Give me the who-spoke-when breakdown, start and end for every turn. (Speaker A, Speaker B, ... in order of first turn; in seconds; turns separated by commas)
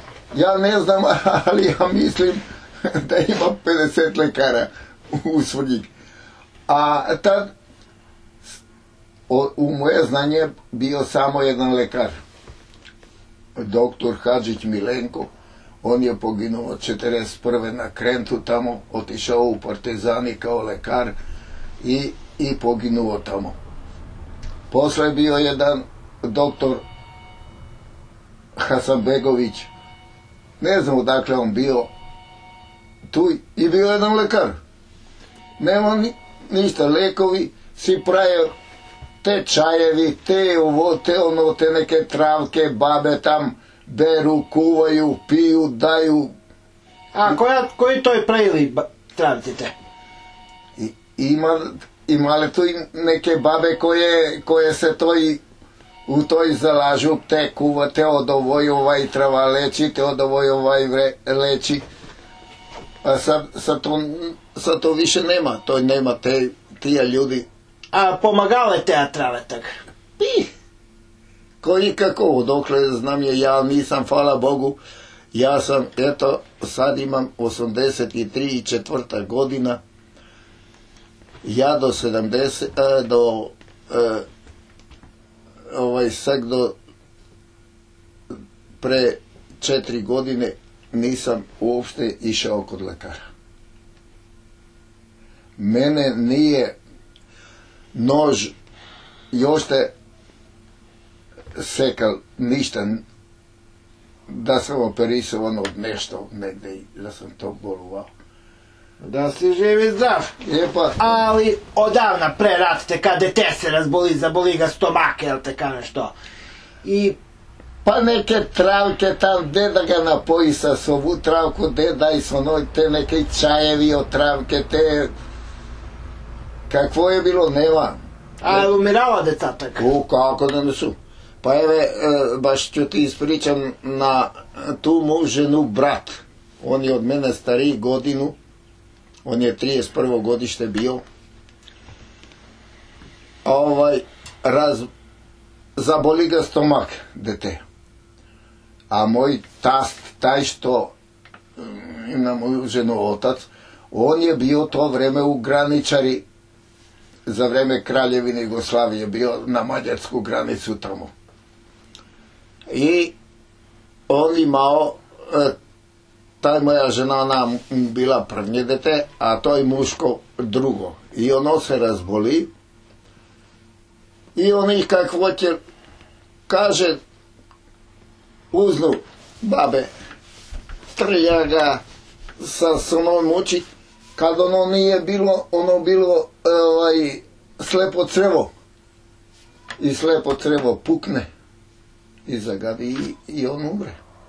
Speaker A: 0.3-5.9, Speaker A: 6.7-7.5, Speaker A: 9.3-12.1, Speaker A: 13.6-15.3, Speaker A: 15.8-21.1, Speaker A: 21.8-23.6, Speaker A: 24.7-26.8, Speaker A: 28.6-29.7, Speaker A: 30.6-31.9, Speaker A: 33.1-34.5, Speaker A: 35.6-38.5, Speaker A: 39.2-46.3, Speaker B: 47.1-49.7, Speaker A: 50.8-55.4, Speaker A: 56.1-61.8, Speaker A: 63.0-67.5, Speaker B: 67.9-69.7, Speaker A: 70.2-70.5, Speaker A: 71.6-74.8, Speaker A: 75.3-79.8, Speaker A: 81.4-84.2, Speaker A: 85.7-86.7, Speaker A: 88.8-93.2, Speaker A: 95.6-96.8, Speaker A: 97.9-98.5, Speaker A: 99.3-99.9, Speaker A: 101.6-103.0, Speaker A: 104.3-108.1, Speaker B: 109.0-110.3, Speaker A: 110.4-111.1, Speaker B: 111.0-116.1, Speaker B: 116.8-117.2, Speaker A: 117.8-125.1, Speaker A: 126.7-128.7, Speaker B: 128.4-129.8, Speaker A: 129.8-138.3, Speaker A: 139.2-141.0, Speaker A: 143.4-144.9, Speaker A: 145.8-147.6, Speaker A: 148.9-150.9, Speaker A: 151.6-156.2, Speaker A: 157.2-161.1, Speaker A: 162.7-163.1, Speaker A: 164.1-165.5, Speaker A: 166.4-172.5, Speaker A: 174.3-175.6, Speaker A: 176.5-177.0, Speaker A: 178.5-179.9, Speaker A: 180.9-181.8, Speaker A: 182.4-183.7, Speaker A: 184.2-188.5, Speaker A: 189.8-191.2, Speaker A: 192.2-193.9